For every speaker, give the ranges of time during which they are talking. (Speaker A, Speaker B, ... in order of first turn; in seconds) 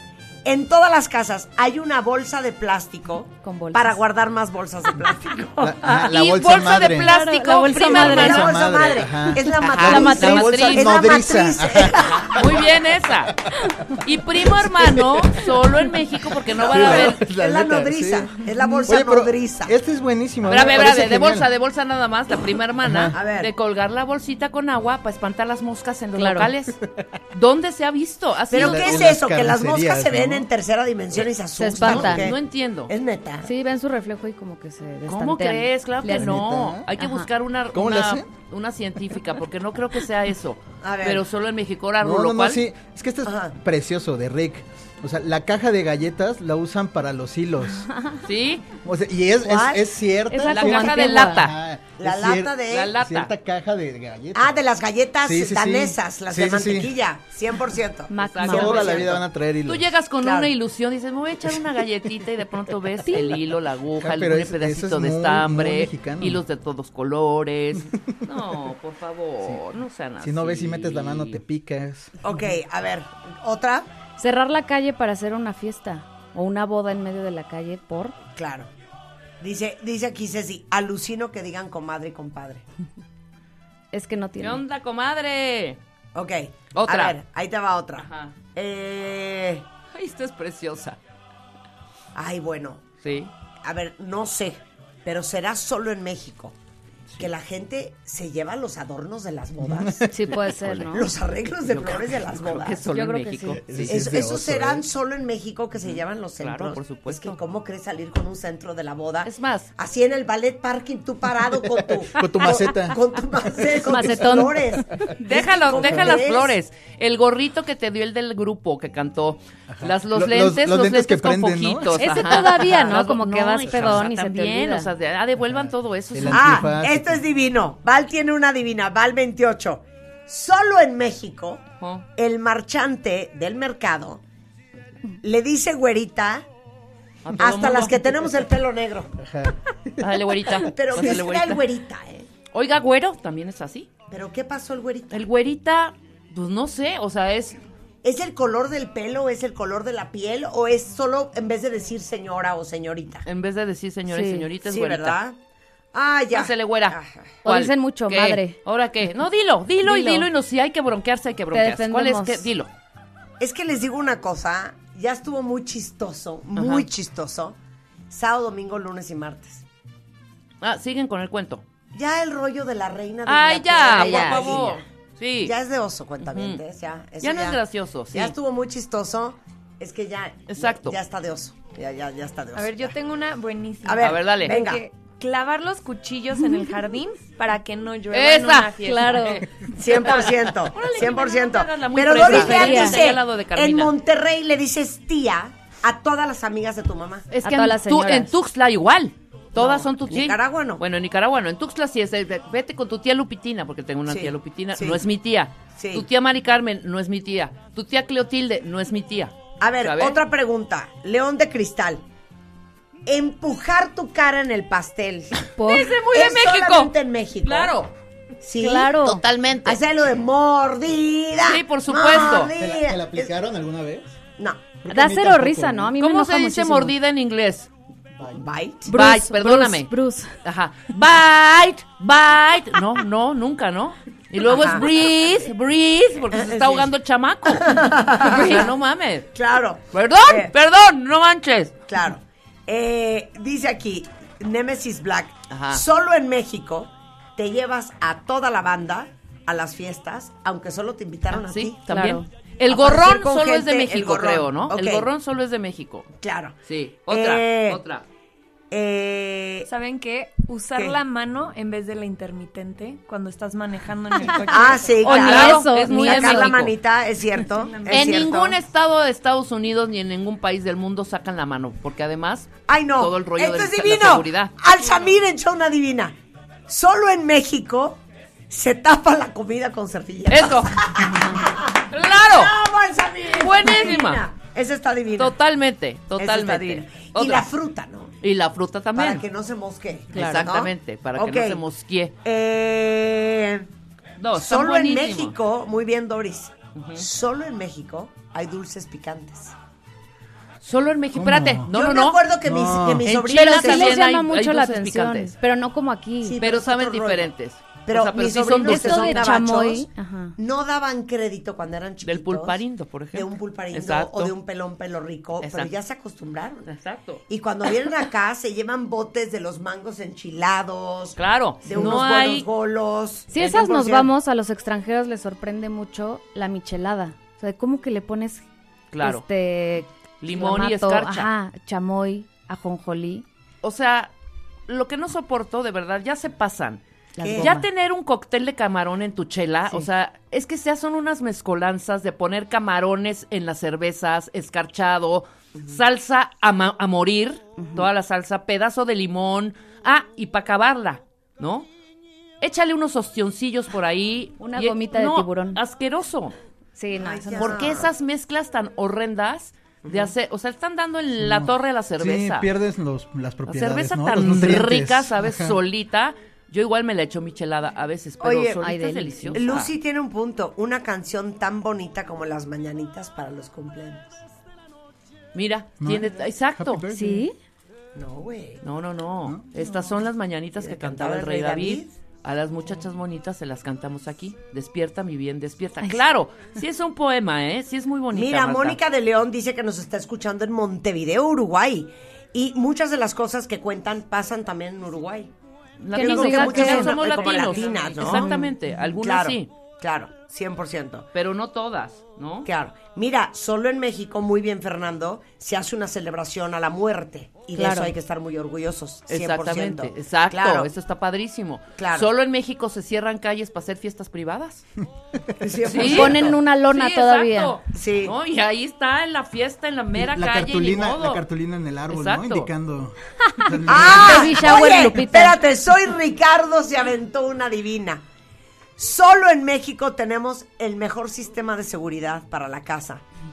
Speaker A: 0.4-6.1, 7.7-12.4, 16.6-19.7, 23.1-23.5, 28.5-33.5, 40.8-41.2, 43.2-43.5, 49.4-49.8, 52.0-52.9, 54.3-59.2, 60.2-60.5, 72.2-73.9, 78.3-78.7, 79.4-82.6, 86.1-89.7, 92.1-92.8, 93.6-96.5, 97.2-100.1, 100.8-102.8, 103.9-116.5, 126.3-131.6, 132.2-134.2, 135.2-136.4, 137.4-139.2, 140.6-142.3, 144.1-145.2, 148.0-153.2, 154.6-155.4, 155.9-157.2, 163.4-167.6, 168.1-169.6, 171.9-174.8, 175.4-177.6, 178.1-182.9, 183.8-184.8, 189.7-197.2, 199.6-200.8, 204.1-205.0, 205.7-206.0, 209.6-212.0, 213.1-215.4, 216.1-217.7, 218.4-219.0, 219.6-223.3, 228.3-228.9, 234.4-234.8, 236.3-236.9, 237.5-238.7, 239.3-240.5, 241.9-251.8, 252.7-255.1, 256.2-256.6, 257.1-257.8, 258.7-259.7, 264.5-268.6, 272.7-276.1, 276.7-285.4, 286.2-288.1, 288.9-291.6, 292.2-293.7, 294.3-299.5, 301.7-304.0, 306.2-307.3, 307.9-312.6, 313.1-316.7, 317.3-324.1, 337.2-337.6, 357.0-357.9, 359.8-360.1, 368.2-368.6, 369.3-374.2, 377.9-378.6, 380.6-381.9, 388.1-395.3, 395.9-398.4, 399.0-401.1, 402.4-410.7, 411.8-412.1, 415.4-416.4, 417.7-418.1, 423.7-428.0, 428.8-433.0
Speaker B: 3.4-4.0, 7.0-8.5, 9.8-10.8, 26.1-26.5, 31.6-32.3, 33.4-36.4, 37.0-37.3, 50.3-51.4, 58.1-58.9, 74.2-78.2, 83.9-84.6, 100.1-101.1, 102.9-103.6, 113.8-115.1, 122.0-124.9, 154.1-154.5, 157.4-158.6, 159.8-160.3, 161.5-162.5, 173.9-174.6, 184.5-184.8, 186.4-186.7, 188.8-189.4, 192.2-193.0, 197.4-198.3, 215.5-216.0, 218.6-219.2, 224.9-226.9, 228.9-230.3, 251.9-252.3, 264.2-266.6, 303.3-306.4, 308.6-310.4, 321.7-322.0, 323.3-328.4, 329.0-333.2, 337.1-337.7, 347.6-347.9, 354.4-355.6, 356.8-357.7, 368.5-369.4, 376.9-377.3, 395.9-398.5, 407.5-407.9, 415.8-417.6, 423.3-425.4
Speaker C: 5.6-7.1, 7.9-14.0, 14.7-15.0, 16.6-21.5, 22.8-23.2, 28.5-30.5, 36.0-36.9, 37.7-38.3, 42.0-47.9, 48.8-54.5, 55.2-56.9, 58.5-59.9, 64.0-66.4, 70.2-72.1, 99.6-100.8, 103.7-104.8, 111.7-114.1, 115.8-116.1, 119.7-122.2, 125.5-127.2, 139.2-140.2, 222.3-224.1, 224.8-225.9, 228.1-228.4, 301.1-301.7, 302.4-303.1, 361.2-365.6, 375.8-377.3, 419.9-424.9
Speaker D: 6.0-8.6, 9.8-11.2, 11.9-13.4, 14.0-17.2, 20.5-26.8, 27.3-29.1, 31.8-32.9, 35.1-42.6, 48.2-48.7, 50.4-51.5, 52.7-53.3, 58.2-71.4, 84.4-85.8, 86.7-87.2, 88.0-88.3, 89.9-91.0, 93.0-93.3, 101.7-104.0, 105.8-107.4, 109.2-109.7, 115.2-126.7, 131.8-132.1, 137.2-138.0, 140.0-141.6, 142.5-143.9, 145.1-147.6, 153.2-155.2, 156.3-162.7, 166.5-166.9, 170.6-171.6, 173.2-175.5, 176.2-176.6, 177.2-178.3, 180.5-181.0, 184.0-184.6, 188.1-193.9, 197.3-210.2, 215.4-217.9, 219.0-219.8, 221.4-222.5, 226.0-227.7, 228.9-229.9, 230.4-239.3, 239.9-241.8, 245.5-245.8, 251.3-256.1, 256.6-258.0, 265.0-266.7, 267.9-274.5, 280.3-280.7, 281.9-282.5, 283.4-284.2, 285.2-287.5, 288.2-289.2, 290.1-292.1, 294.2-295.3, 296.7-297.1, 300.6-302.2, 303.0-305.3, 306.4-309.4, 312.0-314.3, 315.4-315.7, 316.7-317.2, 321.2-322.5, 328.9-329.2, 330.2-331.3, 333.6-334.1, 334.7-336.8, 337.4-351.7, 352.4-356.4, 357.4-362.5, 363.5-369.7, 375.3-376.8, 378.6-388.8, 395.8-399.5, 401.1-402.5, 409.1-414.6, 415.6-421.2, 421.9-422.5
Speaker E: 182.5-189.3, 259.6-265.2